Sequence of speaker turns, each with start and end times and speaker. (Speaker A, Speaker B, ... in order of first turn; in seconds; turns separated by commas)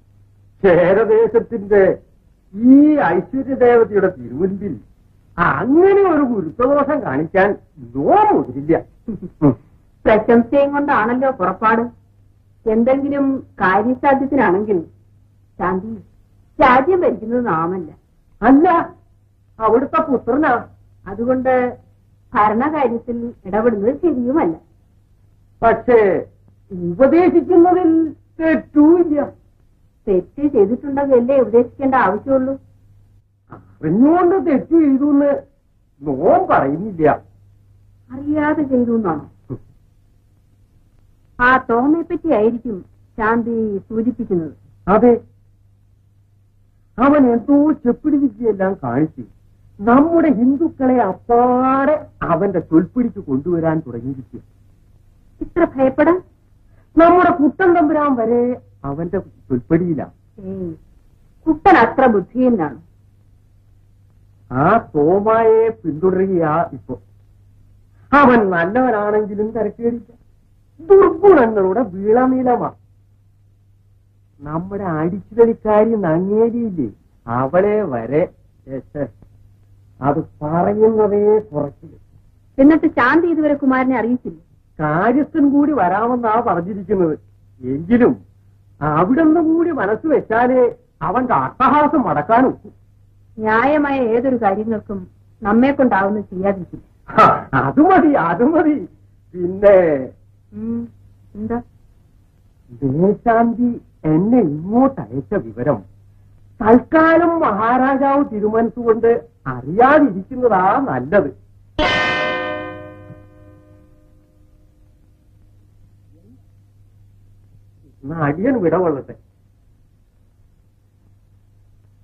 Speaker A: 0.6-1.8, Speaker A: 2.6-4.8, Speaker A: 5.4-8.8, Speaker B: 10.0-11.9, Speaker B: 12.7-14.9, Speaker B: 15.6-16.0, Speaker B: 16.6-17.9, Speaker A: 18.4-18.8, Speaker A: 19.6-20.6, Speaker B: 21.1-21.5, Speaker B: 22.3-24.6, Speaker A: 25.6-26.0, Speaker A: 26.7-29.3, Speaker B: 30.1-32.6, Speaker A: 33.5-35.3, Speaker A: 36.0-37.2, Speaker B: 38.1-39.3, Speaker B: 41.4-44.6, Speaker A: 44.9-45.2, Speaker A: 47.0-49.3, Speaker A: 49.9-54.4, Speaker B: 55.4-56.2, Speaker A: 57.0-60.1, Speaker B: 60.4-60.8, Speaker B: 61.5-62.8, Speaker A: 64.6-67.0, Speaker A: 68.1-70.2, Speaker A: 70.8-72.8, Speaker A: 74.5-79.1, Speaker A: 80.0-82.0, Speaker B: 82.6-84.4, Speaker A: 84.8-87.2, Speaker A: 87.7-88.2, Speaker A: 88.9-92.7, Speaker B: 93.4-96.8, Speaker A: 97.2-100.1, Speaker B: 100.5-101.6, Speaker A: 102.8-105.8, Speaker A: 106.6-111.3, Speaker A: 118.0-119.2